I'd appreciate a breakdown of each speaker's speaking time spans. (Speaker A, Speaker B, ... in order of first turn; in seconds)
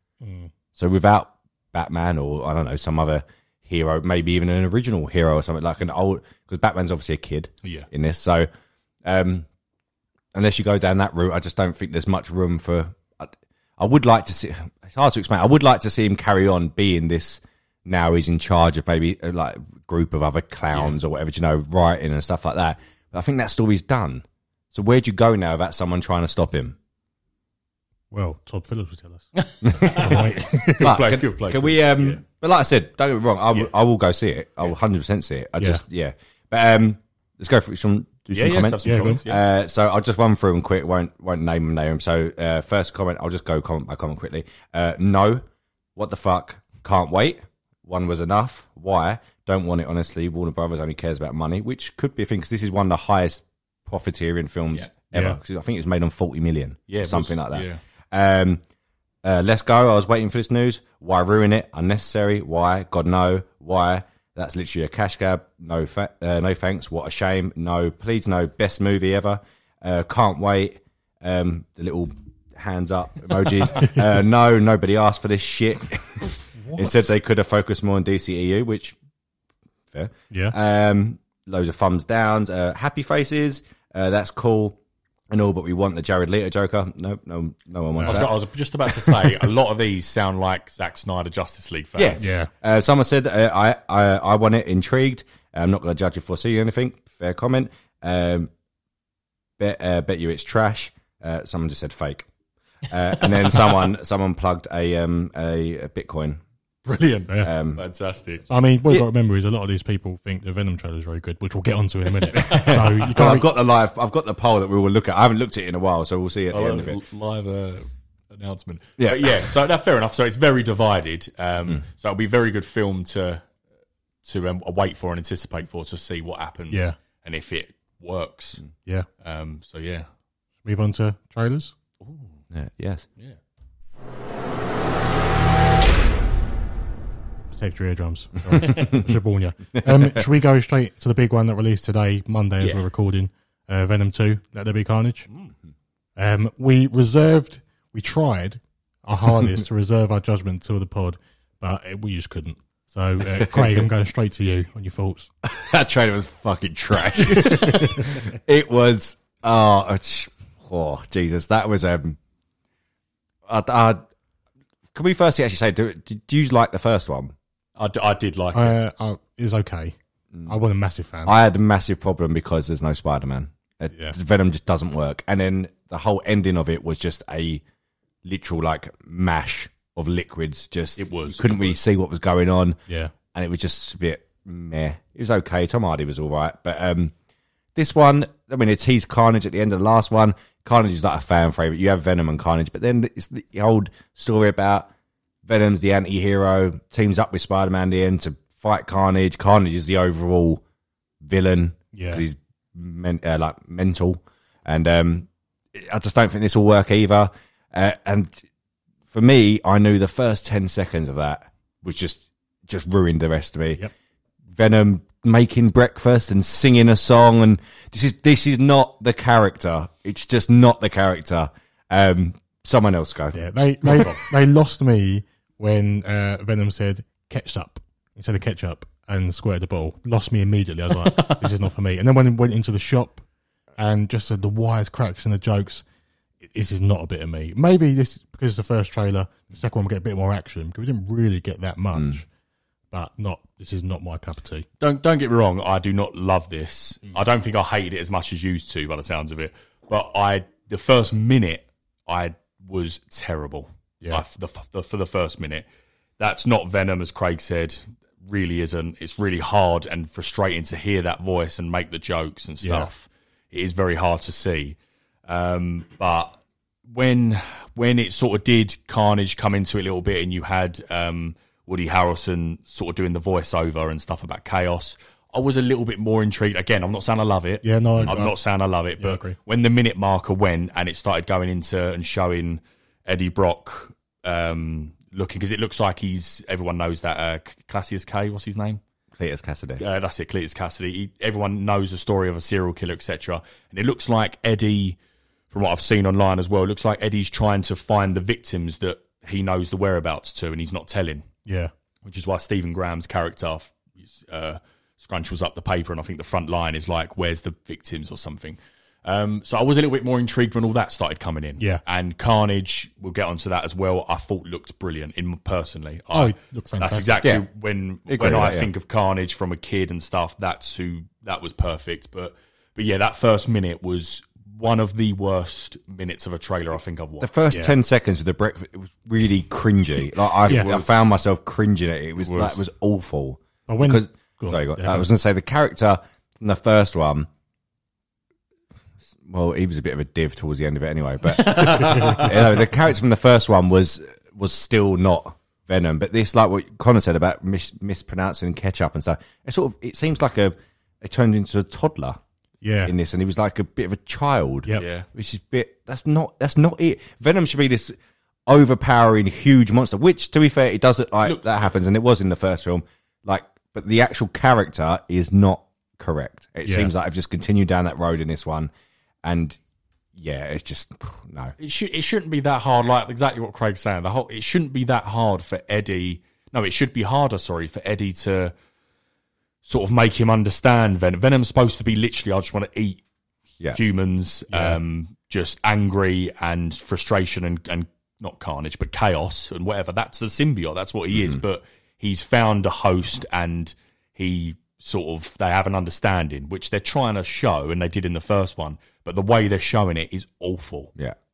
Speaker A: 0.2-0.5, 28.1-31.0, 38.8-39.2, 55.1-55.4, 76.6-77.1, 80.3-80.6, 88.0-88.3, 92.2-92.5, 108.5-113.5, 126.7-127.0, 130.6-131.7, 137.5-145.3, 146.2-155.3, 157.4-158.2, 168.5-169.9, 170.5-171.4, 182.9-183.1, 201.9-202.2, 223.3-233.2, 233.8-235.8, 236.4-242.3, 242.9-244.7, 262.6-262.9, 277.6-278.4, 279.0-279.4, 301.5-301.7, 316.1-317.2, 333.7-335.1, 352.6-352.9, 366.6-366.9, 384.5-384.8
Speaker B: 0.8-8.5, 9.1-9.5, 10.3-26.8, 29.6-45.5, 46.0-58.6, 59.2-79.0, 79.9-84.8, 85.3-88.3, 92.0-98.5, 99.6-102.3, 102.9-106.4, 107.4-107.8, 112.3-117.0, 119.0-119.5, 132.5-133.1, 138.6-139.1, 139.8-140.2, 153.3-153.8, 155.4-162.2, 163.5-164.0, 164.9-167.3, 171.2-177.6, 178.2-182.8, 183.3-187.1, 187.8-194.9, 195.5-200.6, 201.2-208.4, 209.1-213.8, 214.6-223.4, 289.2-289.8, 318.1-318.7, 327.2-337.3, 339.2-352.2, 352.8-357.9, 358.5-368.7, 369.2-369.6, 370.1-371.6, 391.1-391.4
Speaker C: 7.6-7.9, 20.7-21.0, 29.4-32.2, 38.3-39.4, 56.9-57.8, 88.0-92.3, 106.8-108.5, 112.3-113.0, 116.5-123.5, 124.2-128.6, 129.2-130.1, 132.0-132.4, 138.6-138.9, 167.8-168.8, 181.0-181.8, 231.1-231.5, 244.8-255.7, 256.2-288.8, 289.8-295.0, 295.5-301.3, 302.0-327.3, 330.4-330.9, 332.2-332.6, 341.4-342.3, 354.7-355.1, 361.2-361.6, 371.6-378.5, 379.6-383.0, 383.7-400.9